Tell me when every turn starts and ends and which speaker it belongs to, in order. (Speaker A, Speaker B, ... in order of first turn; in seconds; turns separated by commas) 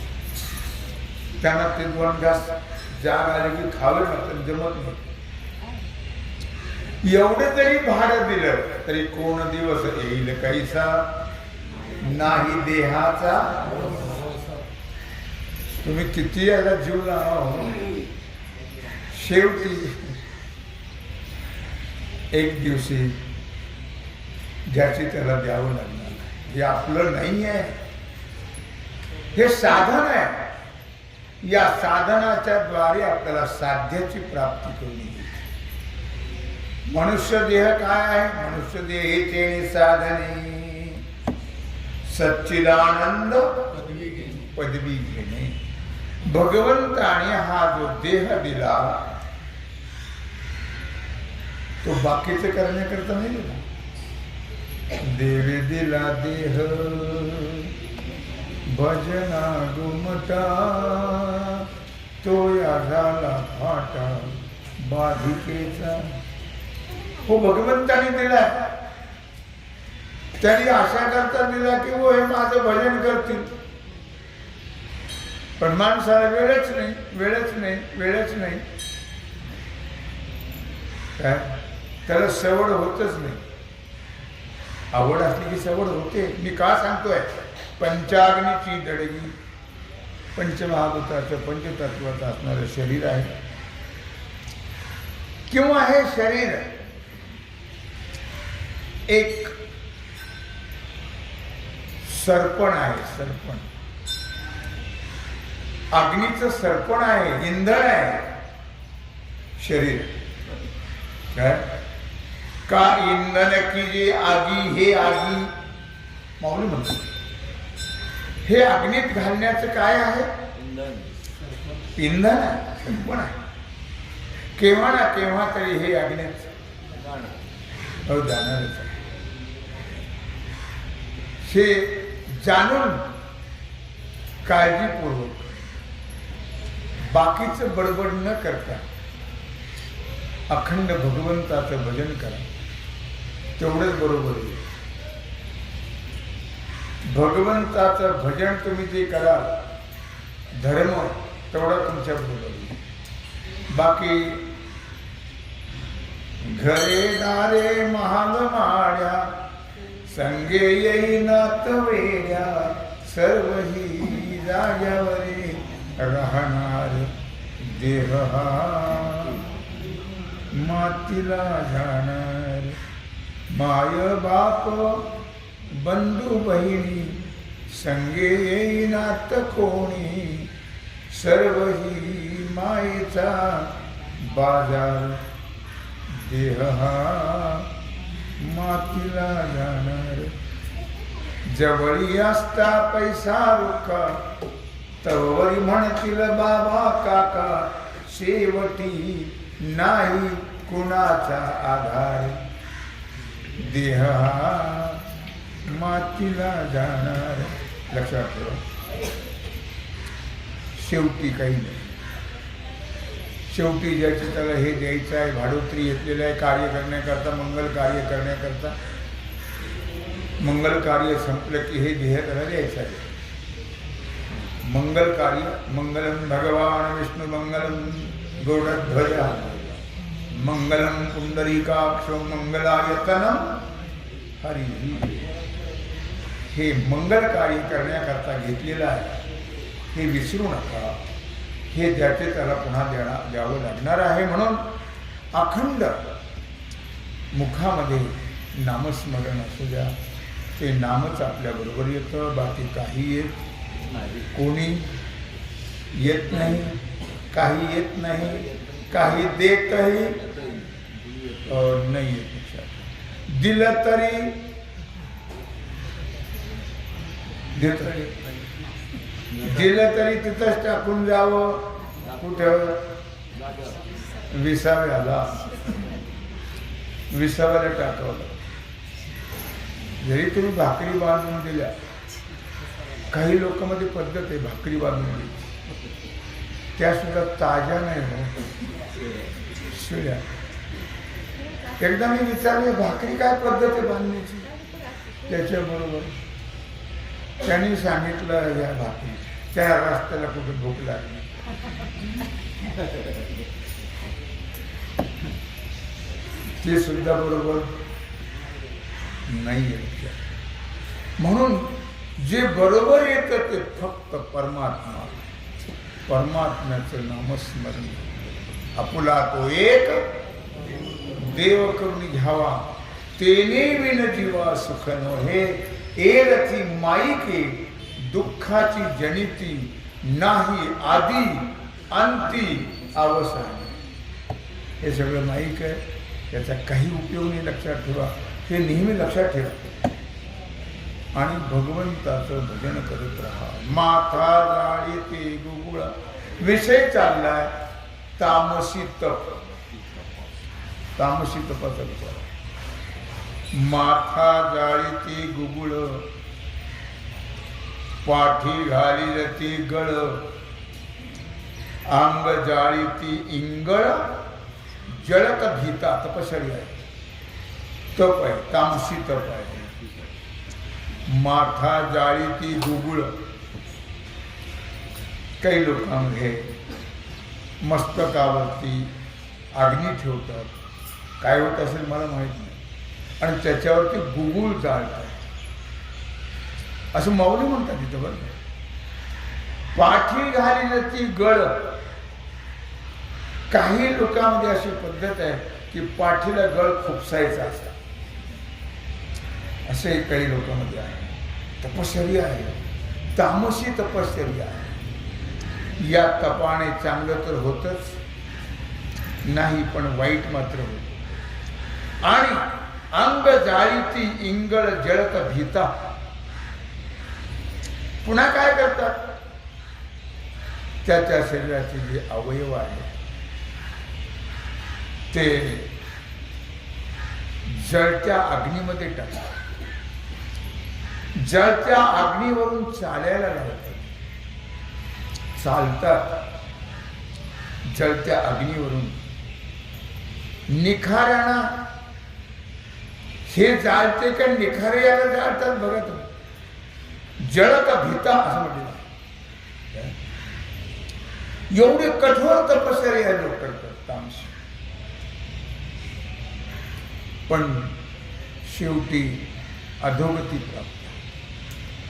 Speaker A: 1.4-5.0, Speaker A: 7.0-11.1, Speaker A: 12.0-13.7, Speaker B: 13.6-14.4, Speaker A: 15.8-18.0, Speaker A: 19.1-20.1, Speaker A: 22.3-23.2, Speaker A: 24.6-27.8, Speaker A: 29.3-30.5, Speaker A: 31.4-35.4, Speaker A: 36.9-41.0, Speaker A: 42.0-43.7, Speaker B: 43.8-44.4, Speaker A: 44.4-45.5, Speaker A: 46.2-49.1, Speaker A: 51.8-53.6, Speaker A: 55.0-57.7, Speaker A: 58.6-61.6, Speaker A: 62.2-66.2, Speaker A: 67.2-68.8, Speaker A: 70.4-73.5, Speaker A: 75.6-78.6, Speaker A: 81.2-83.4, Speaker A: 84.9-89.3, Speaker A: 90.3-93.4, Speaker A: 95.5-96.8, Speaker A: 99.1-99.5, Speaker A: 102.0-103.7, Speaker A: 105.9-108.3, Speaker A: 109.6-110.2, Speaker A: 111.3-111.7, Speaker A: 112.7-115.5, Speaker A: 116.4-117.1, Speaker A: 118.4-120.3, Speaker B: 120.5-121.6, Speaker A: 122.0-123.4, Speaker A: 124.6-126.5, Speaker B: 126.8-127.5, Speaker A: 128.1-128.9, Speaker A: 131.4-133.1, Speaker A: 134.4-135.5, Speaker A: 137.1-138.8, Speaker A: 140.5-142.4, Speaker A: 143.6-144.6, Speaker A: 147.0-149.6, Speaker A: 150.6-152.8, Speaker A: 153.7-154.5, Speaker A: 156.4-159.3, Speaker A: 160.1-169.4, Speaker A: 170.5-172.8, Speaker A: 173.5-175.1, Speaker A: 175.7-180.5, Speaker A: 181.1-185.2, Speaker A: 186.1-187.7, Speaker A: 188.4-190.3, Speaker A: 191.4-194.2, Speaker A: 195.0-202.4, Speaker A: 203.6-205.0, Speaker A: 205.6-208.6, Speaker A: 210.7-212.0, Speaker A: 213.5-218.8, Speaker A: 220.4-223.1, Speaker A: 224.6-229.5, Speaker A: 230.3-233.6, Speaker A: 234.4-235.2, Speaker A: 236.5-239.2, Speaker A: 239.9-241.0, Speaker A: 241.7-244.7, Speaker A: 245.3-246.0, Speaker A: 247.3-249.9, Speaker A: 250.6-253.3, Speaker B: 253.7-254.3, Speaker A: 254.3-254.9, Speaker A: 255.9-260.2, Speaker B: 258.2-259.3, Speaker B: 260.1-261.7, Speaker A: 261.5-264.4, Speaker A: 267.5-268.1, Speaker A: 269.4-272.8, Speaker B: 273.3-274.2, Speaker A: 274.3-275.5, Speaker A: 277.1-278.4, Speaker A: 280.0-281.7, Speaker A: 283.1-285.5, Speaker A: 286.8-288.3, Speaker A: 289.6-290.2, Speaker A: 291.8-294.6, Speaker A: 295.2-296.1, Speaker A: 297.4-301.3, Speaker A: 306.6-307.8, Speaker A: 309.2-310.2, Speaker A: 311.2-315.2, Speaker A: 316.1-320.0, Speaker A: 321.1-333.7, Speaker A: 334.8-339.8, Speaker A: 341.1-347.5, Speaker A: 348.2-349.3, Speaker B: 349.4-350.4, Speaker A: 350.9-352.3, Speaker A: 353.5-356.1, Speaker A: 358.0-360.3, Speaker A: 361.9-364.2, Speaker A: 364.9-366.8, Speaker A: 367.9-369.7, Speaker B: 369.8-370.1, Speaker A: 371.1-373.2, Speaker A: 375.4-376.5, Speaker A: 377.6-378.9, Speaker A: 379.5-380.6, Speaker A: 381.2-382.6, Speaker A: 383.2-385.2, Speaker A: 386.9-388.3, Speaker A: 389.7-391.8, Speaker A: 393.5-397.8, Speaker A: 399.6-402.6, Speaker A: 403.1-404.7, Speaker A: 405.8-408.0, Speaker A: 409.2-411.1, Speaker A: 412.0-415.8, Speaker A: 418.0-419.1, Speaker A: 420.8-422.9, Speaker A: 425.1-425.7, Speaker A: 427.4-429.4, Speaker A: 431.1-433.9, Speaker A: 435.4-436.2, Speaker A: 437.6-439.0, Speaker A: 440.5-441.7, Speaker A: 443.2-446.1, Speaker A: 447.2-448.9, Speaker A: 451.5-454.3, Speaker A: 457.3-457.7, Speaker A: 458.4-459.3, Speaker A: 459.8-460.9